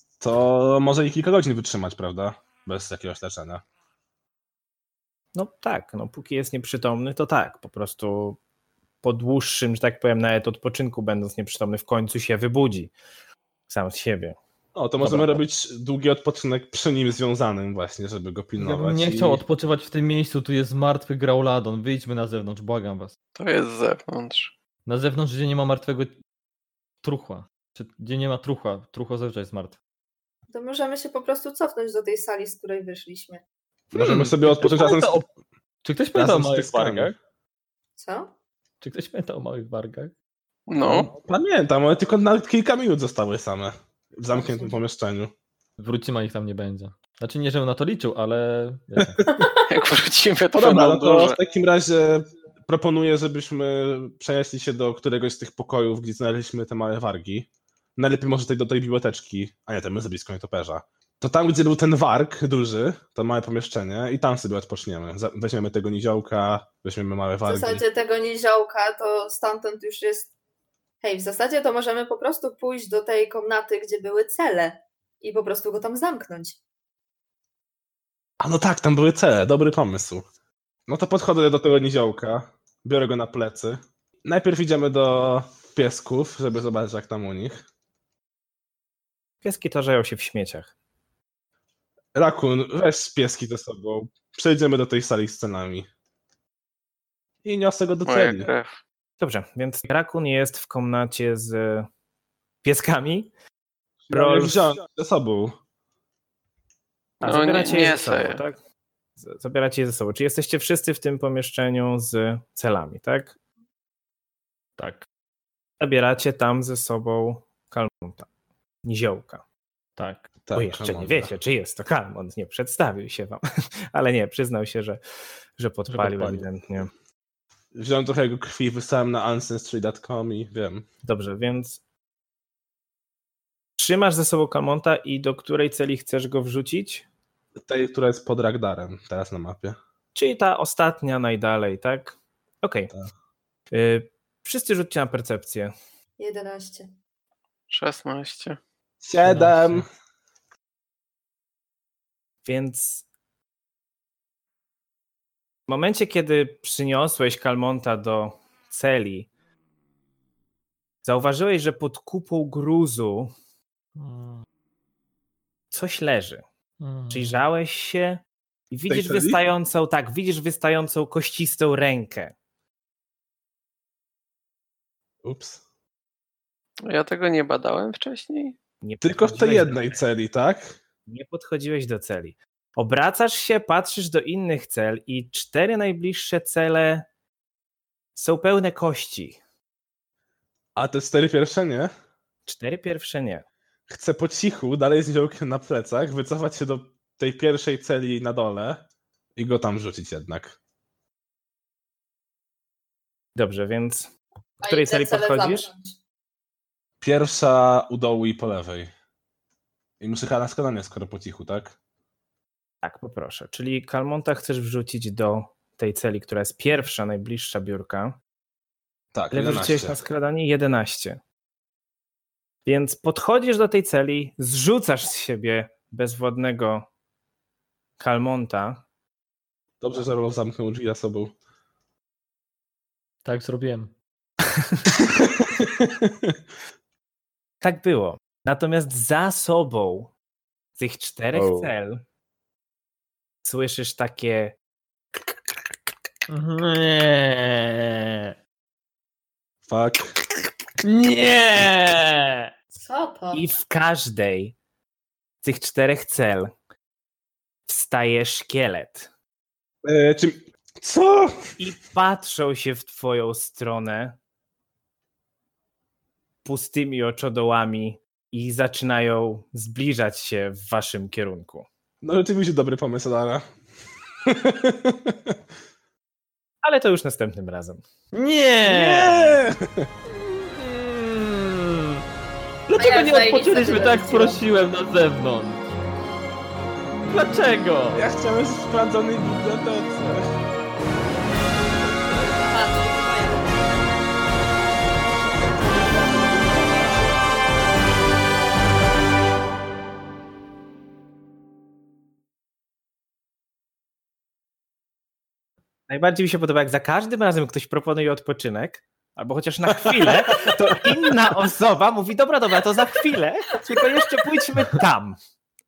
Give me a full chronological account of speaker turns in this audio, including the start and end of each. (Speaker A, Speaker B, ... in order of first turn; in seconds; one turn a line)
Speaker A: 0.2-3.6
Speaker B: 5.3-8.4
Speaker B: 9.0-12.9
Speaker B: 13.7-14.4
Speaker A: 14.7-19.4
Speaker C: 15.0-15.4
Speaker C: 18.6-23.1
Speaker D: 23.4-24.5
Speaker C: 24.9-26.2
Speaker C: 27.0-29.8
Speaker E: 30.5-33.4
Speaker A: 33.9-35.2
Speaker C: 33.9-35.2
Speaker C: 35.8-37.1
Speaker A: 36.1-37.1
Speaker E: 38.0-38.3
Speaker C: 38.8-40.1
Speaker D: 40.7-41.1
Speaker A: 41.0-45.3
Speaker E: 44.3-44.8
Speaker C: 45.8-49.2
Speaker D: 49.7-51.4
Speaker A: 50.5-67.8
Speaker E: 67.4-70.3
Speaker E: 71.0-76.6
Speaker A: 78.4-80.2
Speaker A: 80.9-87.6
Speaker B: 89.4-90.7
Speaker A: 92.1-95.9
Speaker A: 97.4-98.5
Speaker D: 98.0-98.8
Speaker B: 99.2-101.9
Speaker B: 102.6-103.3
Speaker A: 104.1-105.6
Speaker B: 104.1-104.7
Speaker B: 107.2-108.6
Speaker D: 107.2-108.4
Speaker B: 109.2-113.4
Speaker C: 114.8-115.0
Speaker B: 115.8-118.3
Speaker B: 118.8-119.4
Speaker C: 120.0-120.3
Speaker A: 120.5-121.3
Speaker B: 120.5-123.4
Speaker B: 123.9-125.0
Speaker B: 125.6-126.9
Speaker C: 125.9-126.5
Speaker A: 127.7-130.8
Speaker B: 131.0-131.8
Speaker B: 133.8-137.1
Speaker A: 137.6-139.8
Speaker B: 140.1-142.9
Speaker B: 143.7-145.7
Speaker E: 146.2-146.9
Speaker D: 147.7-148.6
Speaker A: 149.0-149.8
Speaker C: 149.2-149.8
Speaker B: 152.4-153.1
Speaker B: 155.7-159.3
Speaker B: 161.0-163.3
Speaker C: 163.9-164.4
Speaker B: 165.7-166.4
Speaker C: 166.8-167.4
Speaker B: 167.1-172.3
Speaker A: 168.9-169.4
Speaker A: 175.2-175.6
Speaker D: 176.9-178.6
Speaker B: 178.8-180.0
Speaker A: 179.0-180.8
Speaker B: 181.1-187.1
Speaker B: 188.1-189.4
Speaker A: 190.8-191.9
Speaker B: 192.5-193.4
Speaker A: 193.9-198.8
Speaker A: 199.3-200.6
Speaker B: 203.3-204.1
Speaker E: 204.6-205.9
Speaker B: 204.6-205.7
Speaker A: 207.0-208.9
Speaker A: 210.0-211.8
Speaker B: 212.8-218.2
Speaker A: 219.1-220.0
Speaker B: 219.3-221.2
Speaker B: 222.7-226.8
Speaker B: 228.0-228.8
Speaker A: 229.8-231.3
Speaker C: 233.2-233.9
Speaker A: 235.0-236.4
Speaker B: 237.6-240.1
Speaker B: 240.8-242.0
Speaker C: 241.3-241.7
Speaker B: 243.4-244.5
Speaker C: 246.3-248.3
Speaker A: 249.7-250.1
Speaker C: 250.8-252.5
Speaker E: 252.7-253.4
Speaker B: 253.3-254.5
Speaker B: 255.4-256.5
Speaker B: 257.7-259.1
Speaker A: 259.8-261.4
Speaker B: 261.6-264.1
Speaker B: 266.4-271.7
Speaker A: 272.0-273.4
Speaker A: 274.2-275.4
Speaker B: 276.6-277.8
Speaker C: 278.1-279.4
Speaker A: 278.6-279.9
Speaker C: 280.1-282.0
Speaker C: 282.7-285.7
Speaker E: 282.8-284.4
Speaker C: 287.1-288.0
Speaker A: 287.9-290.3
Speaker E: 292.3-293.7
Speaker B: 305.9-315.1
Speaker A: 309.7-310.8